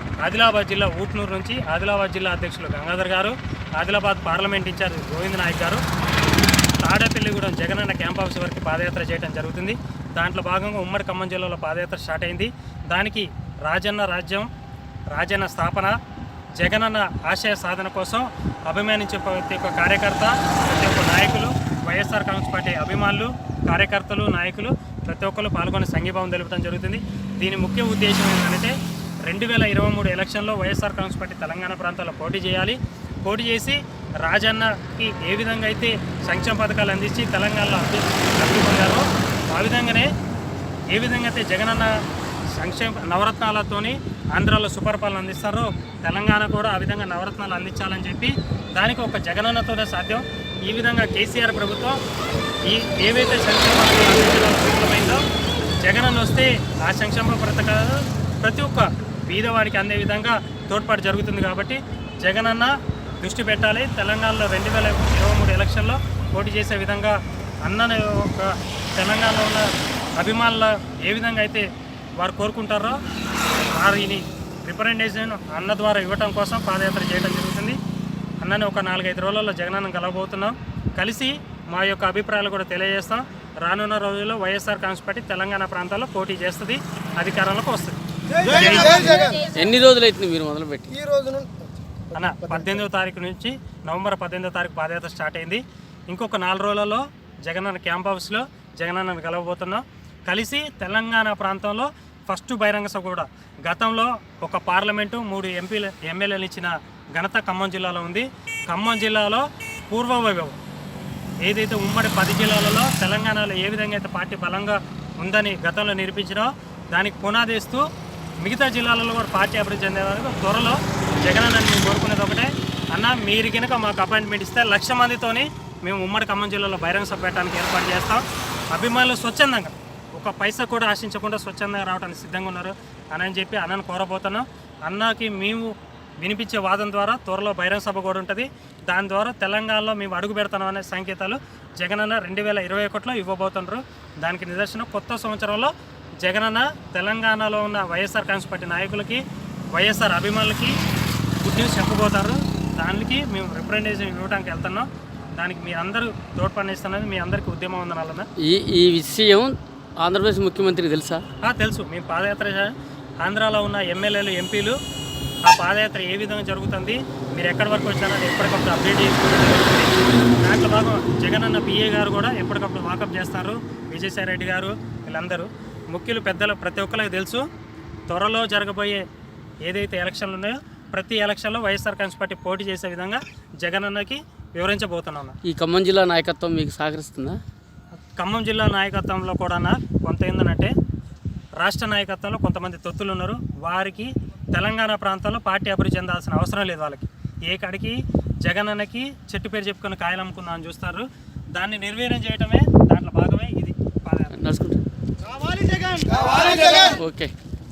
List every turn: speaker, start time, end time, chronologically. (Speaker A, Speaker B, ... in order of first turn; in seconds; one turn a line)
Speaker A: 0.2-5.8
Speaker A: 6.8-14.5
Speaker A: 15.1-15.9
Speaker A: 16.6-28.7
Speaker A: 29.3-40.1
Speaker A: 40.9-41.9
Speaker A: 42.6-52.0
Speaker A: 52.7-55.2
Speaker A: 55.8-69.7
Speaker A: 70.2-71.6
Speaker A: 72.2-73.0
Speaker A: 73.8-77.8
Speaker A: 78.4-89.3
Speaker B: 88.4-89.4
Speaker C: 89.5-91.0
Speaker B: 91.0-91.7
Speaker A: 92.1-110.6
Speaker B: 92.4-92.7
Speaker A: 111.4-117.8
Speaker A: 118.4-128.2
Speaker A: 128.7-149.2
Speaker A: 149.7-150.7
Speaker A: 151.4-158.3
Speaker C: 158.4-161.2
Speaker A: 161.4-162.7
Speaker A: 163.2-164.8
Speaker A: 165.5-177.4
Speaker A: 178.1-179.0
Speaker A: 179.6-185.3
Speaker C: 185.4-187.4
Speaker A: 188.2-190.7
Speaker A: 191.6-204.4
Speaker C: 204.4-204.8
Speaker B: 205.5-207.0
Speaker C: 206.9-207.3